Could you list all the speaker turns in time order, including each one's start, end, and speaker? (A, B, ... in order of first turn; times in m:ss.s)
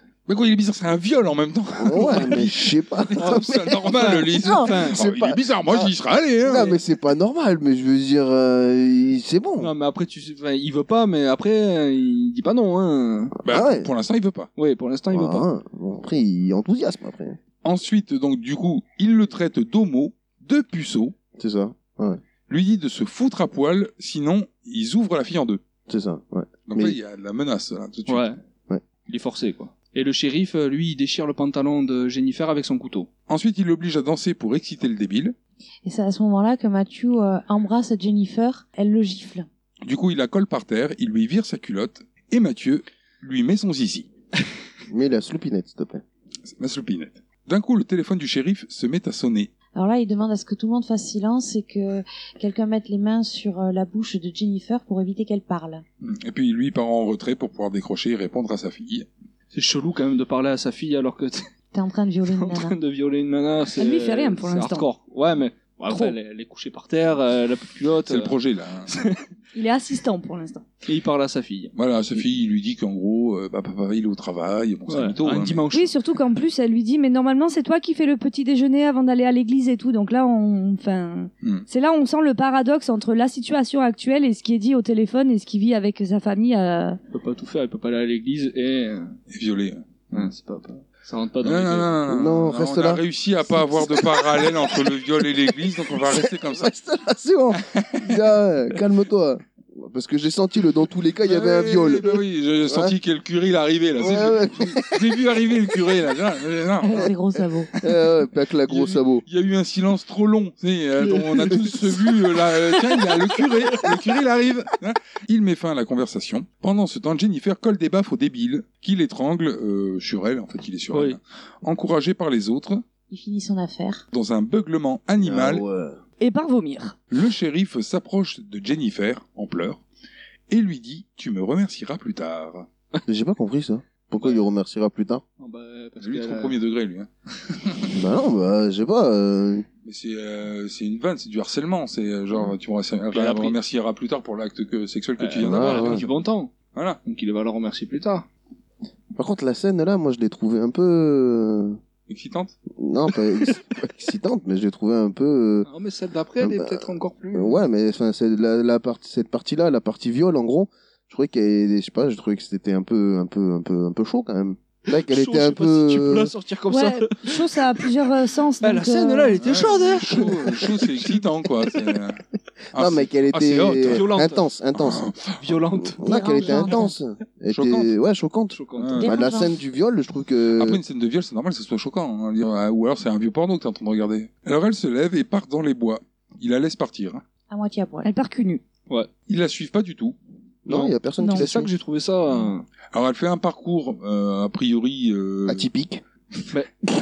0:00.3-0:02.5 A
0:01.8-0:05.9 B
0:02.0-0:02.4 C
0:03.1-0:06.8 A
0:03.2-0:05.1 C
0:06.4-0:09.7 B
0:09.6-0:13.4 C
0:13.4-0:13.9 B
0:13.4-0:14.5 A
0:14.6-0:15.5 C
0:15.1-0:17.4 B
0:17.6-0:21.2 A
0:21.4-0:22.2 B
0:22.5-0:25.6 A
0:25.9-0:27.0 B
0:26.7-0:28.3 A
0:28.1-0:28.4 C
0:29.0-0:33.1 C
0:33.3-0:35.3 A
0:35.8-0:39.5 D
0:39.8-0:44.1 A
0:44.9-0:46.0 B
0:46.5-0:49.5 A
0:49.7-0:55.8 D
0:56.0-0:59.1 A
0:59.5-1:01.5 C
1:01.7-1:02.8 D
1:02.3-1:08.3 C
1:03.8-1:04.9 E
1:05.9-1:06.2 E
1:08.0-1:08.9 A
1:08.9-1:09.2 C
1:09.5-1:10.6 E
1:10.8-1:12.2 C
1:11.8-1:15.6 A
1:14.9-1:15.9 C
1:15.7-1:27.0 E
1:27.1-1:29.2 C
1:29.3-1:30.2 A
1:30.1-1:32.0 C
1:31.4-1:36.7 A
1:32.1-1:42.9 B
1:37.5-1:38.2 A
1:41.2-1:47.1 A
1:44.0-1:45.2 B
1:46.8-1:47.7 D
1:47.8-1:49.2 B
1:48.7-2:02.8 A
1:51.3-1:51.8 B
2:00.9-2:01.2 C
2:03.1-2:04.0 D
2:04.1-2:05.6 A
2:05.2-2:06.0 B
2:06.2-2:06.9 E
2:07.1-2:09.8 A
2:10.5-2:12.7 A
2:13.1-2:15.2 B
2:15.4-2:16.6 C
2:16.0-2:17.9 A
2:17.9-2:19.6 B
2:19.8-2:26.2 A
2:23.1-2:23.6 C
2:25.2-2:28.3 C
2:25.4-2:26.0 B
2:26.7-2:27.0 A
2:29.1-2:31.8 B
2:32.1-2:32.5 A
2:32.8-2:35.7 B
2:35.6-2:37.6 C
2:36.4-2:46.3 B
2:44.9-2:47.6 C
2:46.7-2:49.4 E
2:48.6-2:51.3 C
2:49.4-2:54.0 A
2:52.7-2:55.0 B
2:53.8-2:54.4 C
2:54.8-2:55.4 A
2:55.4-2:56.9 C
2:55.9-3:00.8 B
2:56.0-2:56.9 D
2:57.5-2:57.9 A
2:58.5-2:59.1 C
2:58.8-2:59.2 A
2:59.0-2:59.6 D
3:00.6-3:07.2 A
3:07.5-3:08.1 D
3:08.0-3:08.6 E
3:09.3-3:10.2 A
3:10.6-3:11.7 B
3:10.7-3:12.6 C
3:12.9-3:15.7 A
3:15.5-3:16.0 B